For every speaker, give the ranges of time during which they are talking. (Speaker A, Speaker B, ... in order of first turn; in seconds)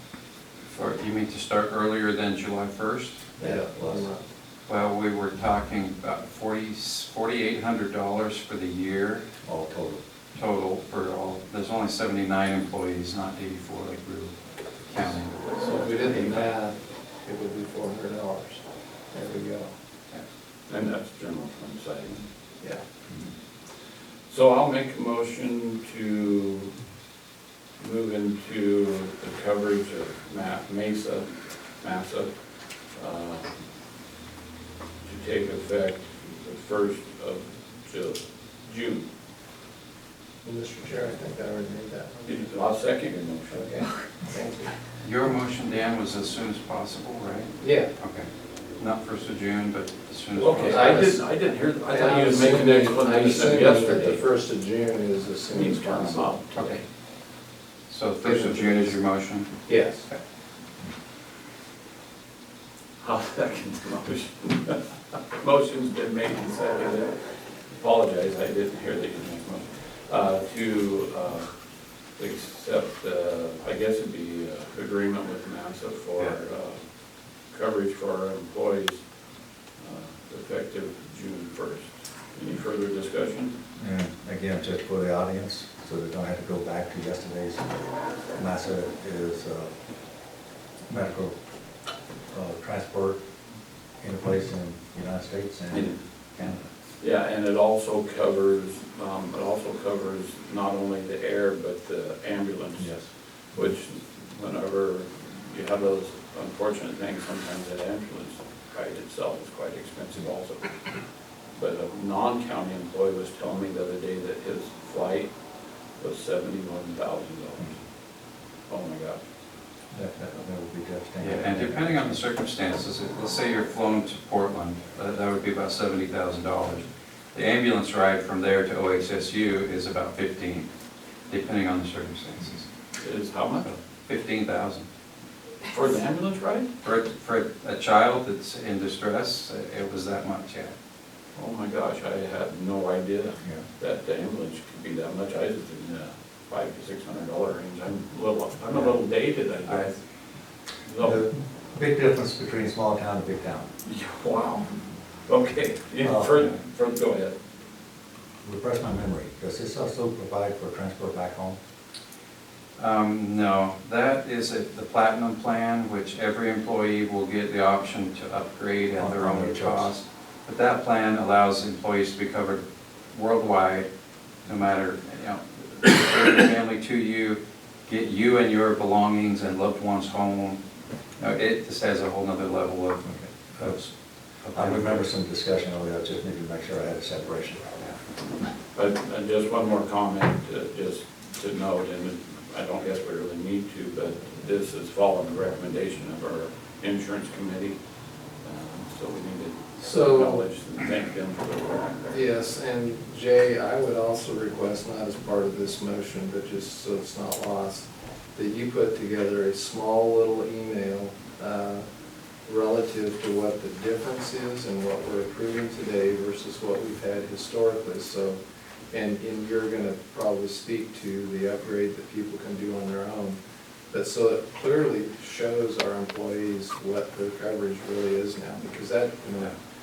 Speaker A: 0.7-3.2, 4.7-9.2, 10.3-16.5, 45.0-50.9, 57.9-59.5, 121.2-130.7, 131.3-132.7, 133.6-134.9, 136.8-140.8, 162.8-173.9, 174.4-180.6, 181.2-185.1
Speaker B: 3.4-4.1, 9.4-10.0, 83.8-87.7, 88.3-89.7, 90.9-91.3, 92.3-93.2, 94.0-96.7, 102.8-103.7, 119.9-122.2, 151.0-153.7, 156.0-156.3, 158.4-161.6, 169.0-169.9, 183.1-183.8, 184.5-188.0
Speaker C: 3.4-4.2, 15.6-19.7, 40.4-42.4, 43.5-44.8, 47.6-47.9, 50.5-51.3, 51.9-56.8, 58.2-59.0, 59.6-60.1, 199.8-200.4, 202.1-211.8, 212.4-218.4, 218.9-223.4, 223.9-229.5
Speaker D: 15.7-16.4, 20.7-22.2, 24.3-26.7, 27.8-31.3, 31.8-32.3, 32.9-33.5, 35.0-39.1, 42.3-43.8, 50.4-54.2, 55.5-56.8, 63.0-71.5, 72.2-76.8, 77.5-79.0, 79.8-83.5, 97.0-103.0, 103.5-111.0, 111.5-115.3, 116.0-117.8, 118.7-119.2, 133.0-133.7, 135.7-136.7, 141.3-150.0, 150.8-151.2, 153.8-157.3, 188.8-197.8, 198.4-202.2